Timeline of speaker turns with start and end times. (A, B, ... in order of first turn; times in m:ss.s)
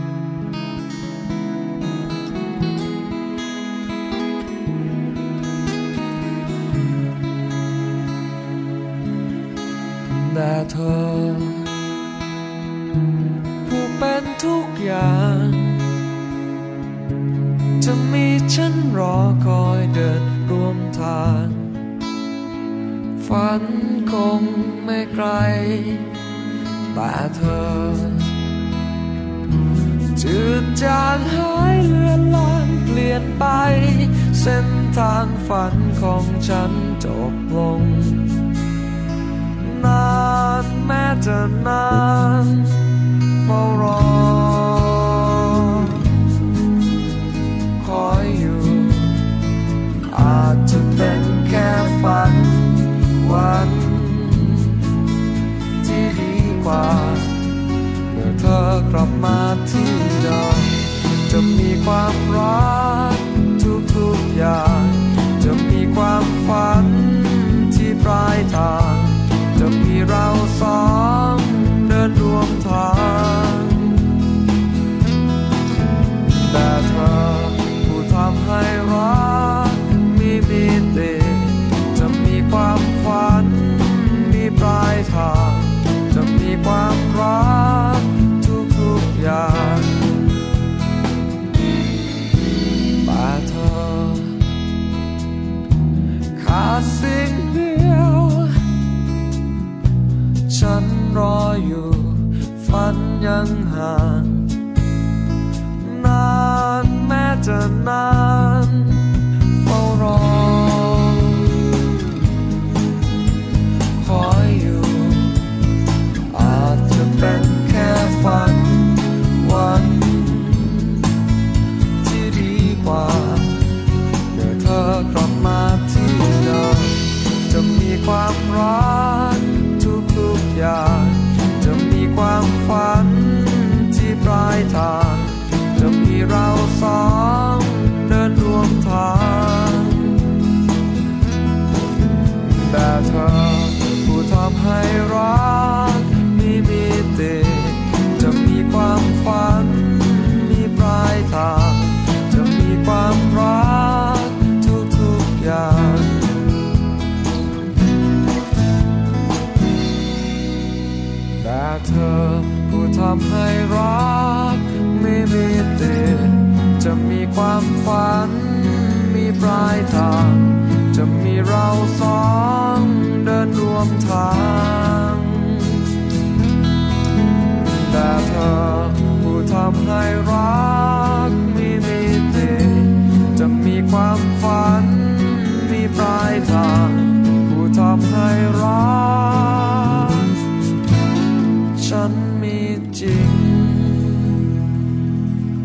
0:10.1-0:11.7 A
0:13.6-0:15.9 A
0:17.8-0:21.7 A
0:23.2-0:26.1 A
0:26.9-0:28.3 A
0:30.1-0:38.4 A
0:39.6-0:42.8 A
0:43.4-0:46.1 A
0:47.8-0:49.2 A
0:50.1-0:54.8 A
0:55.8-0:57.4 A
0:58.1-1:14.2 A
1:16.3-1:30.3 A
1:33.0-1:34.4 A
1:36.3-1:38.6 A
1:40.5-1:44.5 A
1:45.8-1:51.6 A
1:54.0-1:55.5 A
1:56.3-2:01.1 A
2:02.0-2:03.7 A
2:04.3-2:20.4 A
2:22.4-2:36.5 A
2:41.3-2:55.9 A
2:57.6-3:10.3 A
3:11.8-3:14.4 A